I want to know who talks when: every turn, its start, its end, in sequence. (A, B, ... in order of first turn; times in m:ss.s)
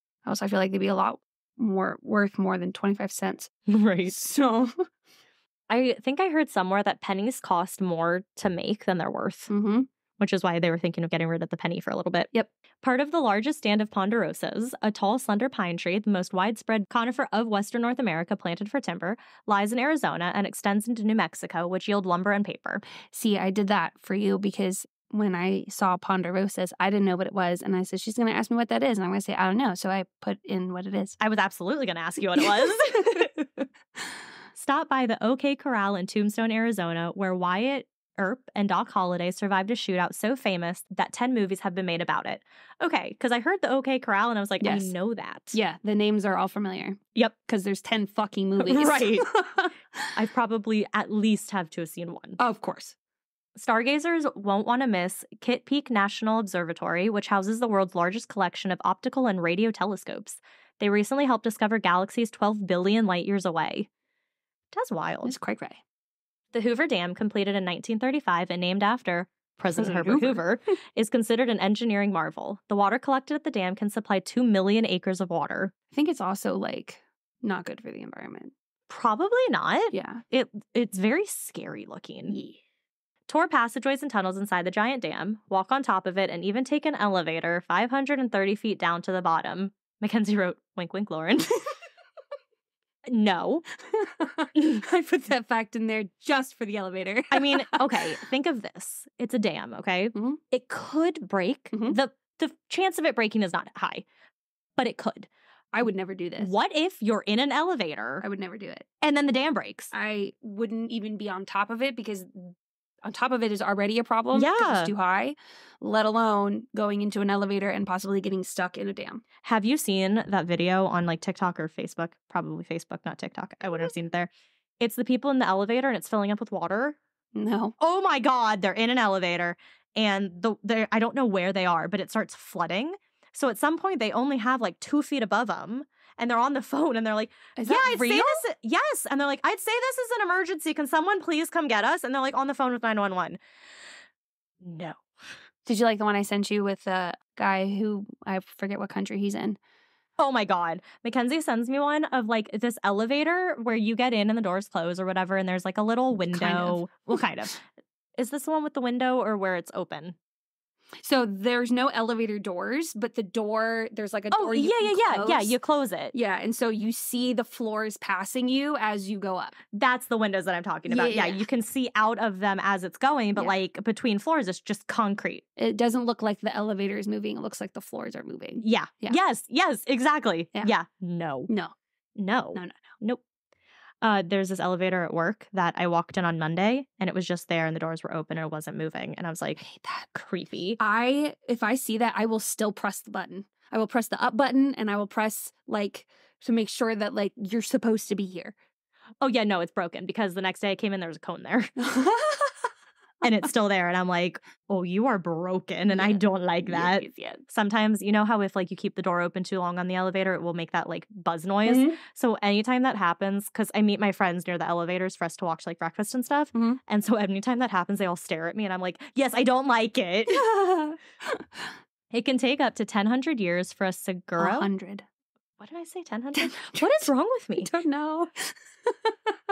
0:00.2-0:03.5 A
0:03.7-0:04.2 B
0:04.0-0:04.8 A
0:05.7-0:09.5 B
0:09.5-0:09.9 A
0:10.2-0:22.8 B
0:23.1-0:31.2 A
0:31.2-0:33.6 B
0:34.5-0:45.6 B
0:44.6-0:44.9 A
0:45.5-0:50.1 A
0:48.6-0:49.3 B
0:50.1-0:52.4 B
0:52.4-0:53.0 A
0:53.6-1:03.9 B
1:04.7-1:05.3 B
1:05.2-1:05.8 A
1:06.5-1:15.7 B
1:09.7-1:10.4 A
1:15.9-1:18.5 A
1:18.9-1:22.4 B
1:19.9-1:20.2 A
1:22.3-1:22.6 A
1:23.3-1:31.6 B
1:33.0-1:33.6 B
1:33.9-1:38.1 A
1:34.6-1:34.8 B
1:37.3-1:44.0 B
1:40.1-1:40.4 A
1:41.7-1:42.0 A
1:44.8-1:45.3 B
1:45.7-1:46.5 A
1:46.4-1:48.2 B
1:48.2-1:48.9 A
1:49.0-1:49.9 B
1:49.9-1:59.2 A
1:54.3-1:54.9 B
1:59.4-2:07.0 B
2:07.4-2:07.7 A
2:07.8-2:23.4 B
2:17.6-2:18.4 A
2:24.6-2:25.0 B
2:25.6-2:29.6 A
2:30.2-2:37.6 B
2:36.3-2:37.2 A
2:38.2-2:40.2 B
2:41.0-2:45.5 A
2:44.3-2:46.1 B
2:46.1-2:49.6 A
2:49.7-2:55.4 B
2:50.9-2:51.4 A
2:55.6-2:59.2 A
2:58.6-3:01.5 B
3:01.5-3:01.7 A
3:02.2-3:03.2 B
3:02.5-3:02.9 A
3:04.0-3:09.6 B
3:09.6-3:10.1 A
3:10.1-3:10.8 B
3:10.8-3:18.5 A
3:19.2-3:21.7 B
3:21.8-3:22.7 A
3:23.2-3:40.5 B
3:25.9-3:27.4 A
3:31.6-3:32.0 A
3:36.5-3:36.8 A
3:40.3-3:41.4 A
3:42.1-3:44.7 B
3:44.4-3:45.0 A
3:45.6-3:47.7 B
3:46.3-3:49.3 A